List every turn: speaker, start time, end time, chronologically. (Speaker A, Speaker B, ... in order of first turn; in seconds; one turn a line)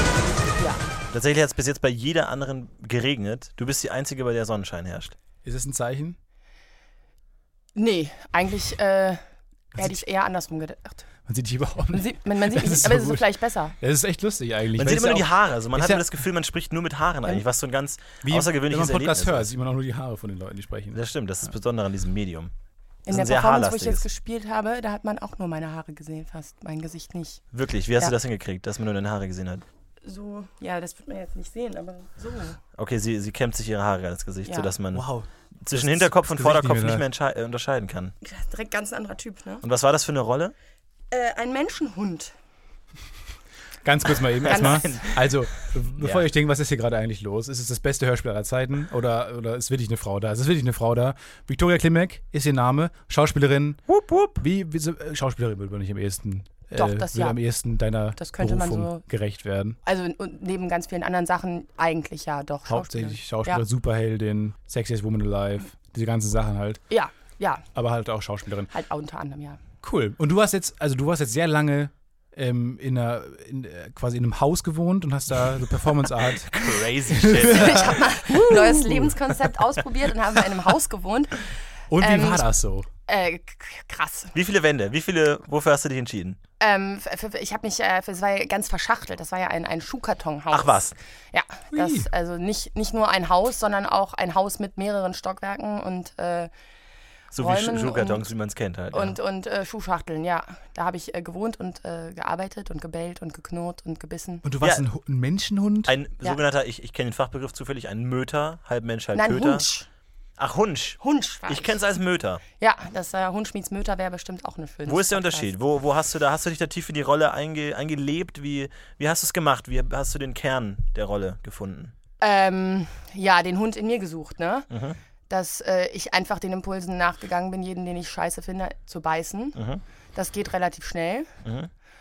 Speaker A: 0.3-0.8
Speaker B: 1.1-5.2
Speaker C: 5.4-6.2
Speaker A: 7.8-9.2
Speaker A: 9.7-11.1
Speaker C: 9.7-10.0
Speaker C: 11.2-16.0
Speaker A: 11.9-13.8
Speaker B: 14.8-19.5
Speaker C: 18.2-21.0
Speaker B: 20.9-22.5
Speaker A: 23.0-27.4
Speaker B: 23.1-24.0
Speaker B: 27.5-29.6
Speaker A: 30.0-32.6
Speaker B: 32.8-35.0
Speaker A: 34.5-34.7
Speaker C: 34.9-37.0
Speaker B: 35.6-38.1
Speaker A: 38.2-39.6
Speaker B: 39.6-40.5
Speaker A: 41.1-42.3
Speaker C: 43.8-53.8
Speaker B: 44.4-46.3
Speaker A: 44.5-45.0
Speaker B: 53.9-54.4
Speaker C: 54.4-59.8
Speaker A: 56.7-57.4
Speaker A: 58.1-59.0
Speaker A: 59.8-63.6
Speaker C: 62.7-66.8
Speaker A: 66.9-67.7
Speaker C: 67.7-68.7
Speaker A: 68.7-69.6
Speaker C: 69.8-79.2
Speaker B: 76.5-78.0
Speaker A: 77.4-82.5
Speaker C: 81.9-82.9
Speaker A: 83.1-84.3
Speaker B: 84.3-86.4
Speaker A: 86.6-96.5
Speaker B: 90.5-90.9
Speaker C: 91.7-92.1
Speaker B: 97.3-99.2
Speaker A: 97.4-98.3
Speaker A: 98.9-104.4
Speaker C: 104.4-105.9
Speaker B: 105.9-109.7
Speaker A: 109.1-109.9
Speaker B: 110.4-112.4
Speaker A: 111.0-111.8
Speaker A: 112.6-115.5
Speaker B: 114.9-121.9
Speaker A: 122.2-124.7
Speaker B: 124.7-125.0
Speaker A: 125.3-129.6
Speaker B: 129.6-129.8
Speaker A: 130.1-131.3
Speaker B: 131.4-131.7